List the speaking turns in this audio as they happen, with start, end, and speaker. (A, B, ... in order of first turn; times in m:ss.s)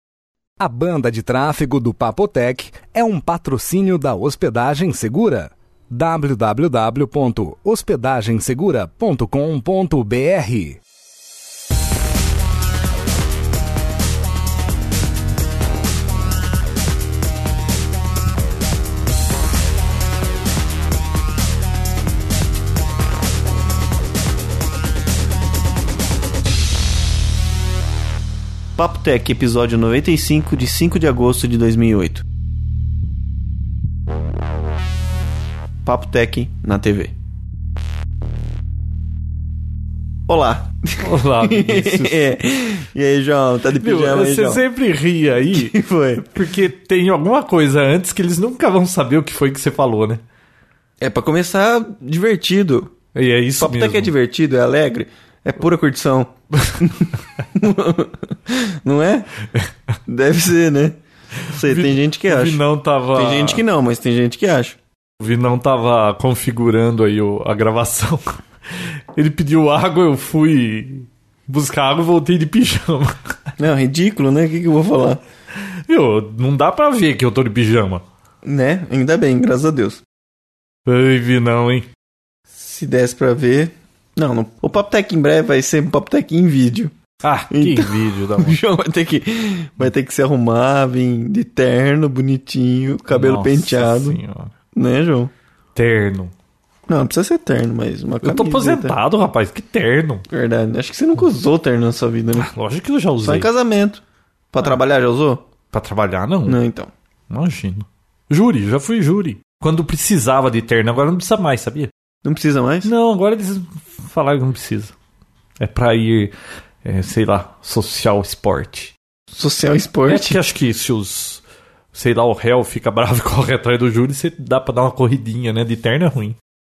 0:00.6-0:10.8 A
0:28.8-0:32.2 B
0:35.8-0:37.1 B
0:40.3-0:44.6 B
0:41.0-0:42.1 C
0:43.8-0:45.8 C
0:45.5-0:46.4 B
0:46.3-0:50.2 C
0:51.0-0:52.9 B
0:53.1-0:54.1 C
0:53.6-0:59.3 B
1:00.1-1:01.0 B
1:01.5-1:02.6 B
1:01.5-1:03.6 C
1:03.1-1:04.8 B
1:05.2-1:13.4 C
1:13.6-1:15.2 B
1:15.9-1:18.0 C
1:18.4-1:20.0 B
1:20.8-1:21.9 C
1:22.5-1:26.9 B
1:27.2-1:28.6 C
1:27.5-1:34.2 B
1:33.1-1:34.5 C
1:34.7-1:35.3 B
1:35.7-1:36.3 C
1:36.9-1:39.0 B
1:38.2-1:40.2 C
1:40.3-1:42.5 B
1:42.4-1:43.5 C
1:43.2-1:45.4 B
1:45.7-1:46.6 C
1:46.4-1:46.9 B
1:47.3-1:51.9 C
1:52.2-1:52.9 B
1:52.8-1:54.9 C
1:55.6-1:56.3 C
1:56.8-1:58.9 C
1:59.3-2:00.4 B
2:00.1-2:01.4 C
2:01.9-2:06.4 C